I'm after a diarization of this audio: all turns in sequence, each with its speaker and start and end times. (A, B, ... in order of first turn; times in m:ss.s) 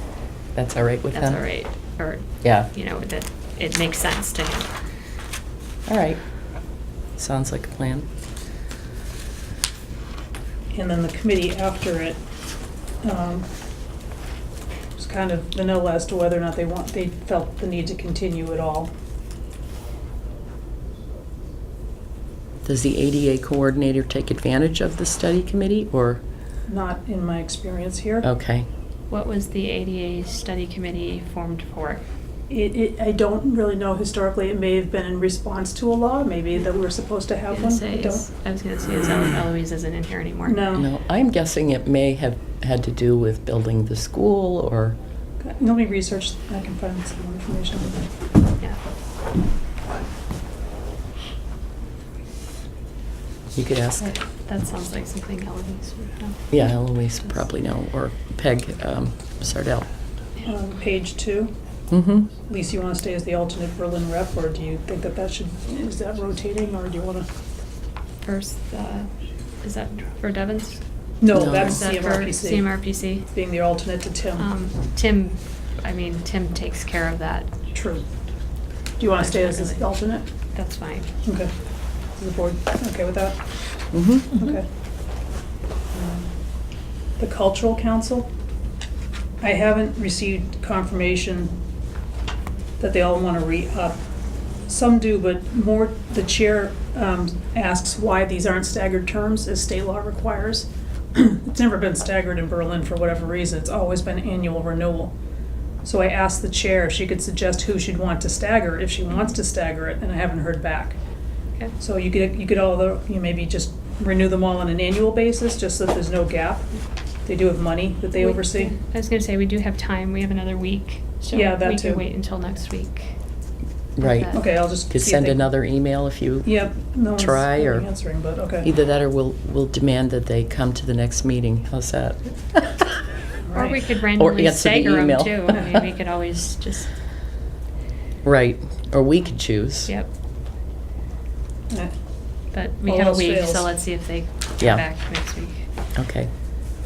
0:00.5-0:01.4 A
0:01.1-0:04.7 B
0:02.4-0:02.7 A
0:05.9-0:06.4 A
0:07.1-0:08.0 A
0:10.7-0:12.2 C
0:13.0-0:13.5 C
0:15.0-0:18.9 C
0:22.6-0:26.2 A
0:26.6-0:28.2 C
0:28.2-0:28.7 A
0:29.1-0:32.0 B
0:32.5-0:38.3 C
0:37.5-0:40.6 B
0:40.4-0:40.9 C
0:40.7-0:45.0 A
0:45.4-0:48.1 C
0:53.5-0:54.1 A
0:54.0-0:57.3 B
0:56.5-0:59.9 A
1:00.4-1:01.5 C
1:01.9-1:02.3 A
1:02.5-1:07.3 C
1:08.2-1:10.8 B
1:11.2-1:12.7 C
1:11.3-1:11.8 A
1:11.6-1:13.3 B
1:13.3-1:14.5 C
1:14.4-1:17.5 B
1:17.7-1:18.1 C
1:19.0-1:20.3 C
1:19.2-1:19.9 B
1:20.5-1:21.1 B
1:21.2-1:21.5 C
1:22.1-1:23.4 C
1:23.9-1:24.4 A
1:24.3-1:24.7 C
1:25.9-1:26.3 C
1:27.2-1:28.3 C
1:29.4-1:31.6 C
1:32.8-1:34.0 C
1:34.6-1:45.1 C
1:45.8-1:51.0 C
1:51.8-1:58.7 C
1:58.1-2:03.2 B
2:01.3-2:02.0 C
2:04.0-2:07.9 A
2:04.0-2:04.5 B
2:04.3-2:05.5 C
2:06.4-2:08.7 C
2:08.6-2:12.2 A
2:13.4-2:13.8 C
2:13.5-2:16.9 B
2:14.1-2:15.8 A
2:18.2-2:19.9 A
2:22.5-2:25.7 B
2:22.8-2:23.7 C
2:25.9-2:26.3 A